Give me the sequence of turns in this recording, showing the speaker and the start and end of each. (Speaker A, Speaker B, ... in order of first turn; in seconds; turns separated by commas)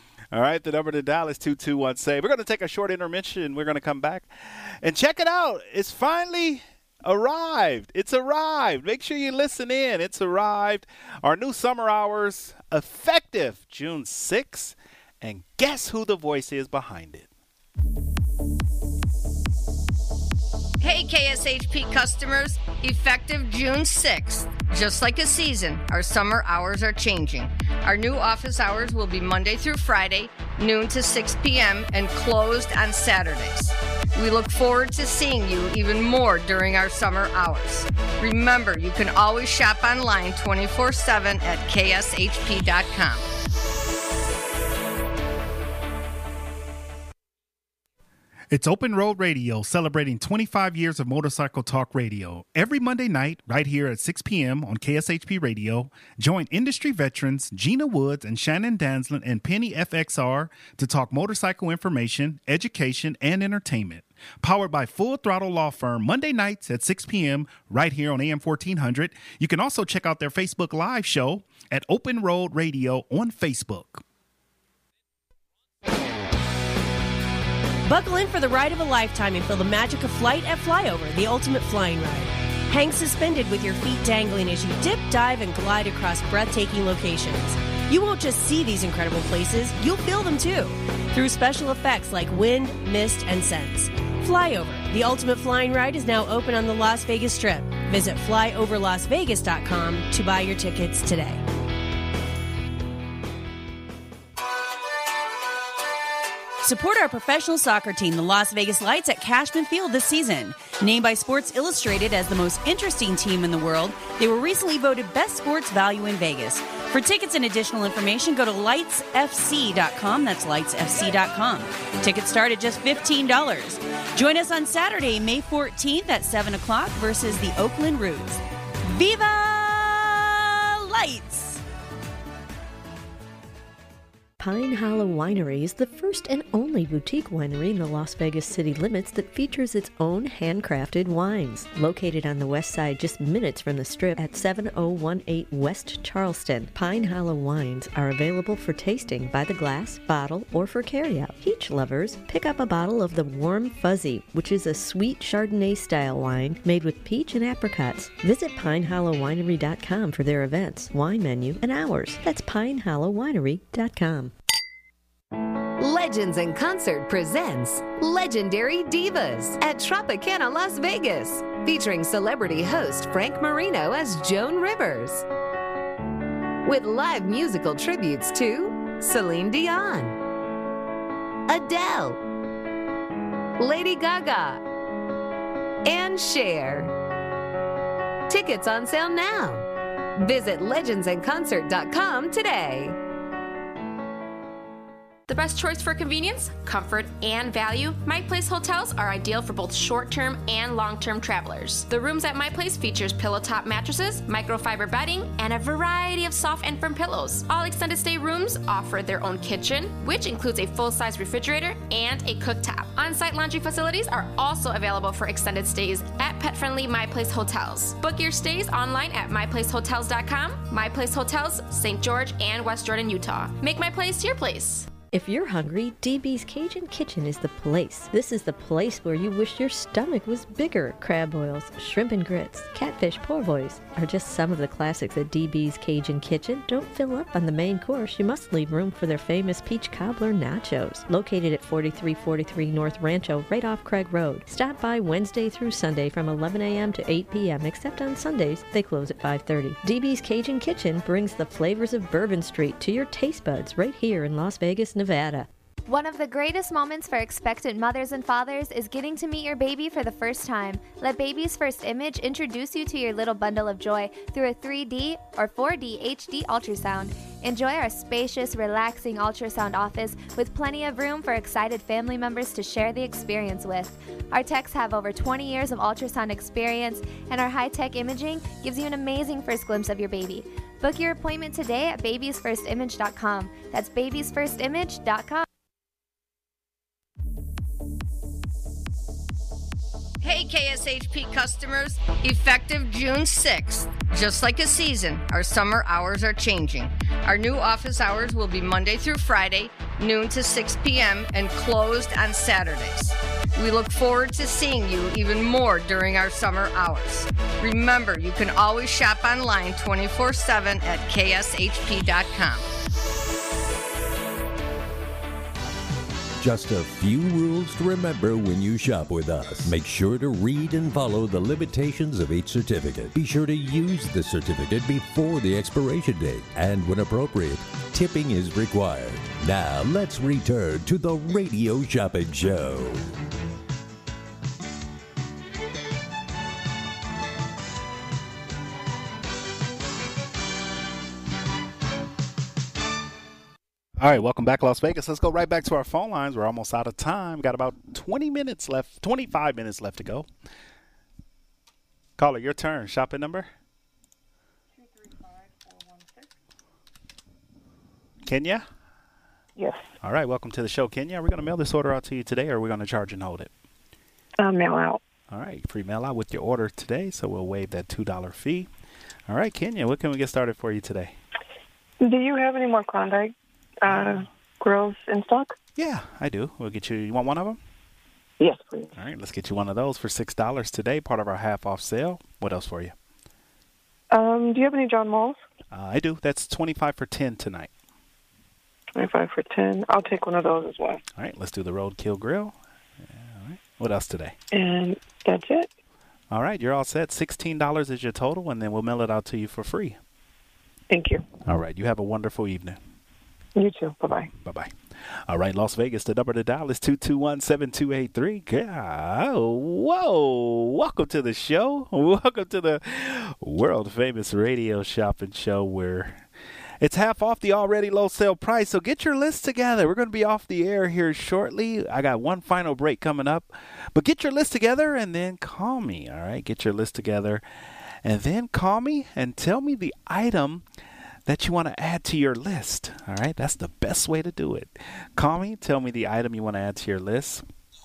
Speaker A: 0.3-17.3, Speaker B: 20.8-43.2, Speaker A: 48.5-74.0, Speaker C: 77.9-101.4, Speaker D: 106.6-131.6, Speaker E: 134.4-164.3, Speaker F: 165.8-175.2, Speaker F: 176.6-180.2, Speaker F: 181.5-182.2, Speaker F: 183.6-184.6, Speaker F: 185.8-186.9, Speaker F: 188.3-193.0, Speaker G: 195.3-224.9, Speaker E: 225.0-255.5, Speaker H: 255.9-285.4, Speaker B: 290.2-312.6, Speaker I: 316.4-333.0, Speaker A: 344.0-350.3, Speaker A: 352.2-353.5, Speaker J: 354.8-356.3, Speaker A: 358.2-358.6, Speaker J: 359.6-359.9, Speaker A: 360.0-363.5, Speaker J: 364.4-365.0, Speaker A: 365.3-368.7, Speaker A: 369.3-371.1, Speaker J: 372.0-375.5, Speaker A: 373.9-374.2, Speaker A: 375.8-377.6, Speaker J: 378.4-378.9, Speaker A: 378.9-382.9, Speaker J: 384.1-385.4, Speaker A: 385.7-387.7, Speaker J: 388.9-391.0, Speaker A: 391.1-392.5, Speaker A: 393.0-394.3, Speaker J: 394.5-395.7, Speaker A: 396.3-400.0, Speaker J: 400.9-401.2, Speaker A: 401.4-402.8, Speaker J: 403.6-404.3, Speaker A: 404.4-404.7, Speaker A: 405.3-416.2, Speaker A: 416.8-427.4, Speaker A: 428.0-430.6, Speaker A: 431.2-437.4